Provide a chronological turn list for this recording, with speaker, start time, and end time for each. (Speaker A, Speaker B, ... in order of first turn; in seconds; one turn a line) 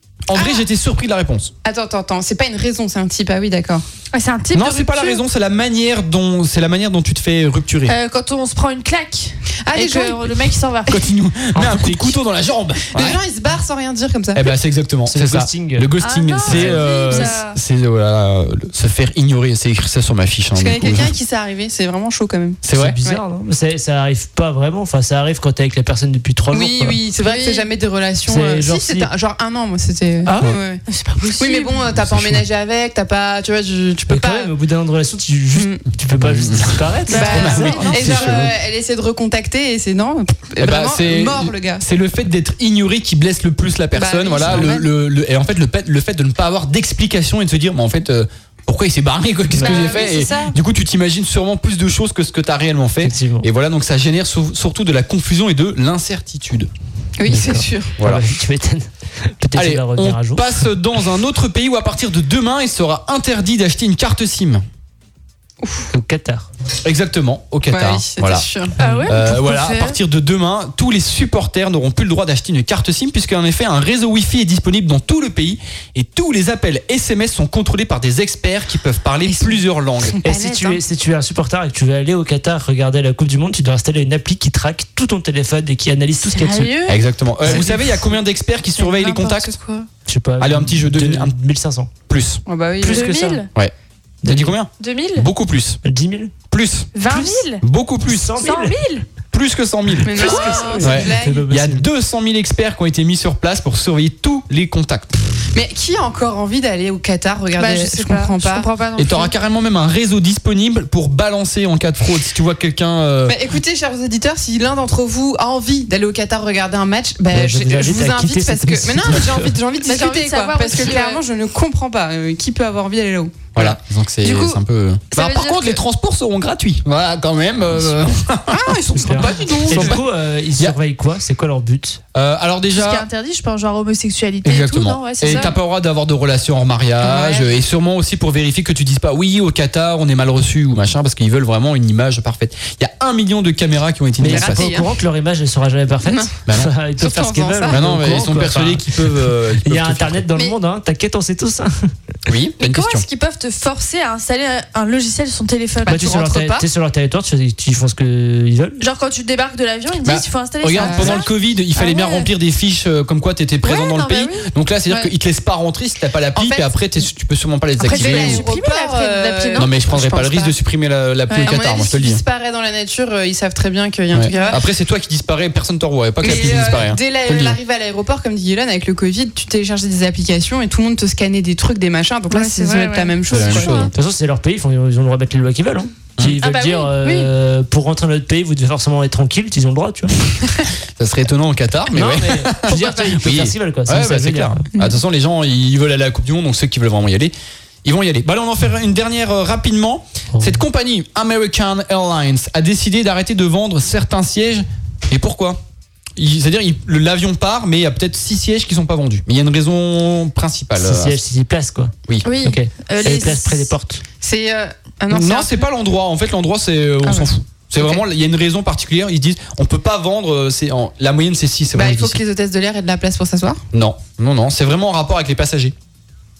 Speaker A: 0.3-1.5
Speaker B: 0.3-0.6
Speaker B: 1.6-3.8
Speaker C: 4.1-5.2
Speaker A: 4.5-8.0
Speaker C: 7.9-11.0
Speaker B: 9.6-10.3
Speaker A: 10.9-13.2
Speaker D: 11.5-12.2
Speaker B: 12.9-14.5
Speaker A: 14.3-21.1
Speaker D: 15.1-15.9
Speaker C: 16.0-17.6
Speaker D: 16.4-17.1
Speaker B: 20.5-23.2
Speaker A: 22.6-22.9
Speaker D: 22.7-27.0
Speaker B: 26.5-30.8
Speaker C: 27.2-27.7
Speaker D: 28.3-29.1
Speaker D: 30.2-30.5
Speaker C: 30.9-31.9
Speaker B: 31.4-34.5
Speaker A: 32.0-32.4
Speaker D: 34.1-37.9
Speaker B: 35.5-35.8
Speaker A: 36.2-38.5
Speaker C: 37.1-38.4
Speaker B: 37.1-41.8
Speaker A: 40.6-56.7
Speaker B: 43.9-44.9
Speaker C: 49.6-50.5
Speaker B: 49.7-50.5
Speaker D: 53.0-53.5
Speaker B: 57.2-57.9
Speaker D: 57.3-60.7
Speaker A: 58.0-58.3
Speaker A: 59.5-64.6
Speaker B: 65.6-65.9
Speaker D: 65.9-66.5
Speaker A: 66.8-68.5
Speaker B: 67.7-68.7
Speaker D: 68.8-69.1
Speaker C: 68.8-70.0
Speaker A: 69.0-80.2
Speaker B: 80.0-80.8
Speaker D: 80.2-86.8
Speaker C: 86.2-87.0
Speaker A: 86.9-89.5
Speaker C: 87.5-87.9
Speaker C: 88.8-89.9
Speaker D: 90.1-91.9
Speaker A: 90.4-91.3
Speaker A: 92.1-92.4
Speaker B: 92.5-93.1
Speaker D: 92.8-93.4
Speaker C: 92.8-93.5
Speaker D: 94.2-94.6
Speaker A: 94.2-95.8
Speaker C: 94.8-95.3
Speaker D: 95.8-96.3
Speaker A: 96.5-98.4
Speaker C: 96.9-97.6
Speaker D: 97.1-97.4
Speaker D: 98.1-98.8
Speaker C: 98.4-99.0
Speaker A: 99.3-105.2
Speaker B: 100.0-101.5
Speaker D: 100.1-101.8
Speaker C: 100.2-100.9
Speaker B: 105.5-108.7
Speaker C: 107.6-109.3
Speaker A: 109.0-113.4
Speaker B: 113.2-124.6
Speaker D: 117.3-119.5
Speaker C: 119.8-121.2
Speaker A: 123.5-128.8
Speaker C: 125.1-125.8
Speaker B: 128.5-130.0
Speaker D: 128.9-132.0
Speaker A: 129.7-130.0
Speaker A: 132.1-133.1
Speaker C: 132.7-135.6
Speaker A: 134.4-144.7
Speaker B: 135.2-135.5
Speaker B: 137.0-137.5
Speaker D: 144.2-151.9
Speaker B: 144.3-144.9
Speaker B: 146.0-146.3
Speaker B: 147.0-147.8
Speaker A: 147.7-150.2
Speaker A: 152.3-153.0
Speaker C: 152.6-156.6
Speaker B: 155.8-156.3
Speaker D: 155.8-158.8
Speaker C: 158.8-162.3
Speaker A: 160.0-168.5
Speaker B: 160.8-161.2
Speaker C: 163.6-164.5
Speaker B: 166.3-166.7
Speaker C: 167.8-169.7
Speaker B: 167.8-170.6
Speaker A: 169.5-172.2
Speaker C: 171.3-171.5
Speaker B: 171.4-174.6
Speaker A: 174.1-177.6
Speaker C: 174.3-174.6
Speaker B: 176.2-183.9
Speaker C: 182.3-183.9
Speaker A: 183.3-183.9
Speaker D: 183.9-190.1
Speaker C: 186.4-187.3
Speaker A: 191.0-205.6
Speaker D: 191.9-194.7
Speaker D: 200.3-200.6
Speaker A: 206.2-211.2
Speaker D: 210.8-214.0
Speaker C: 212.2-213.7
Speaker B: 214.2-215.7
Speaker A: 215.1-222.2
Speaker B: 217.0-218.0
Speaker B: 221.7-223.6
Speaker A: 223.7-225.7